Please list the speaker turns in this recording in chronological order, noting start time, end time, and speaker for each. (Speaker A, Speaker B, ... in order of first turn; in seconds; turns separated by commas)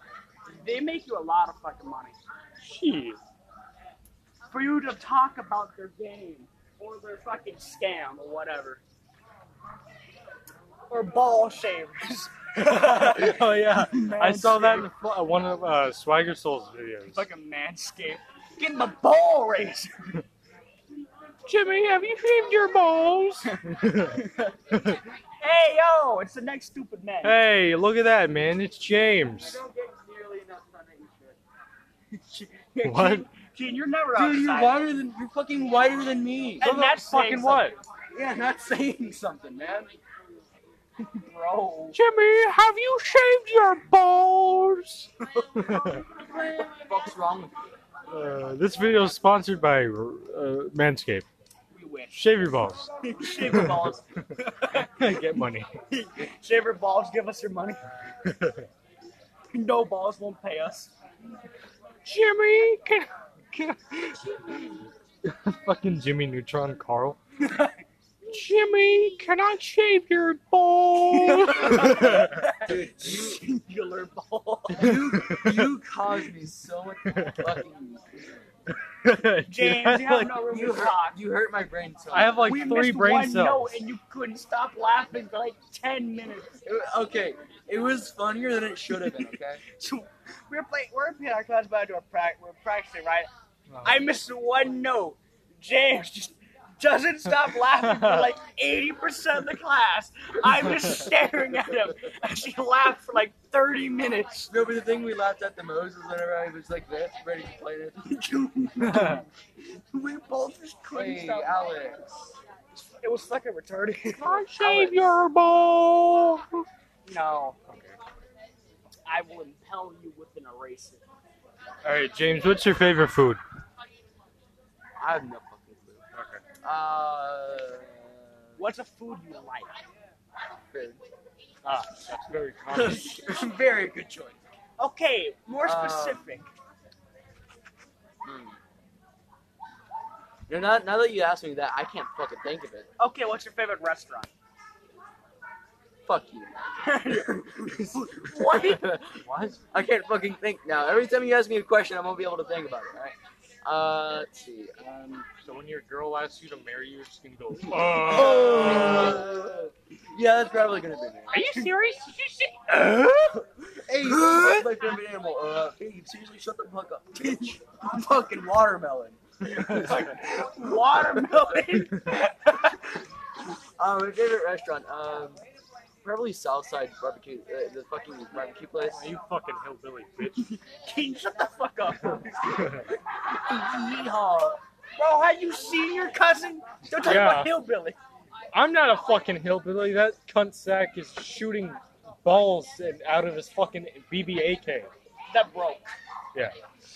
Speaker A: 0.5-2.2, Speaker B: 2.6-3.2, Speaker A: 4.5-8.8, Speaker A: 10.9-14.9, Speaker B: 12.6-17.2, Speaker A: 17.1-19.9, Speaker B: 21.4-25.0, Speaker A: 23.5-24.4, Speaker A: 25.4-27.4, Speaker B: 27.2-29.6, Speaker C: 29.3-31.4, Speaker A: 32.1-34.8, Speaker B: 32.8-33.2, Speaker D: 34.1-36.7, Speaker A: 36.6-37.7, Speaker B: 36.6-37.7, Speaker D: 38.1-39.9, Speaker A: 41.0-42.0, Speaker B: 41.9-46.0, Speaker D: 46.3-47.5, Speaker B: 48.1-51.2, Speaker A: 51.7-52.2, Speaker B: 52.1-54.0, Speaker A: 53.0-54.9, Speaker B: 54.7-55.7, Speaker A: 55.9-57.8, Speaker B: 58.2-58.6, Speaker A: 59.5-60.9, Speaker B: 62.0-64.6, Speaker B: 65.2-67.2, Speaker A: 67.4-67.7, Speaker B: 68.3-72.3, Speaker A: 71.1-74.9, Speaker D: 72.6-73.4, Speaker D: 74.7-78.0, Speaker B: 74.8-75.7, Speaker B: 77.1-77.5, Speaker B: 79.0-80.4, Speaker A: 79.5-81.2, Speaker D: 80.4-82.5, Speaker B: 82.1-83.8, Speaker A: 82.4-86.6, Speaker D: 86.6-89.6, Speaker A: 89.7-93.3, Speaker B: 93.7-94.0, Speaker A: 93.8-104.5, Speaker B: 97.9-98.3, Speaker D: 104.5-108.1, Speaker A: 108.0-109.3, Speaker B: 108.8-109.2, Speaker A: 109.9-111.9, Speaker D: 110.9-112.1, Speaker A: 112.7-115.0, Speaker B: 114.2-116.7, Speaker A: 117.0-117.6, Speaker B: 117.7-118.0, Speaker A: 119.0-121.0, Speaker B: 121.8-123.4, Speaker D: 125.0-126.0, Speaker B: 126.1-126.4, Speaker D: 126.6-128.3, Speaker A: 128.6-129.7, Speaker D: 130.7-131.0, Speaker B: 131.6-133.2, Speaker D: 132.7-134.4, Speaker A: 134.8-136.5, Speaker D: 135.6-136.3, Speaker D: 138.2-138.6, Speaker D: 140.5-142.9, Speaker A: 143.0-144.3, Speaker D: 146.1-146.9, Speaker A: 146.8-149.0, Speaker D: 147.6-155.3, Speaker B: 149.2-149.6, Speaker B: 155.4-159.2, Speaker D: 157.7-161.5, Speaker B: 161.3-162.6, Speaker A: 161.4-161.7, Speaker A: 162.6-163.3, Speaker D: 163.8-170.1, Speaker C: 163.9-164.7, Speaker A: 169.4-172.8, Speaker D: 173.8-175.4, Speaker D: 176.0-179.1, Speaker B: 178.8-180.5, Speaker A: 180.2-188.0, Speaker B: 182.6-182.8, Speaker B: 187.0-187.5, Speaker B: 188.5-194.9, Speaker A: 195.3-195.8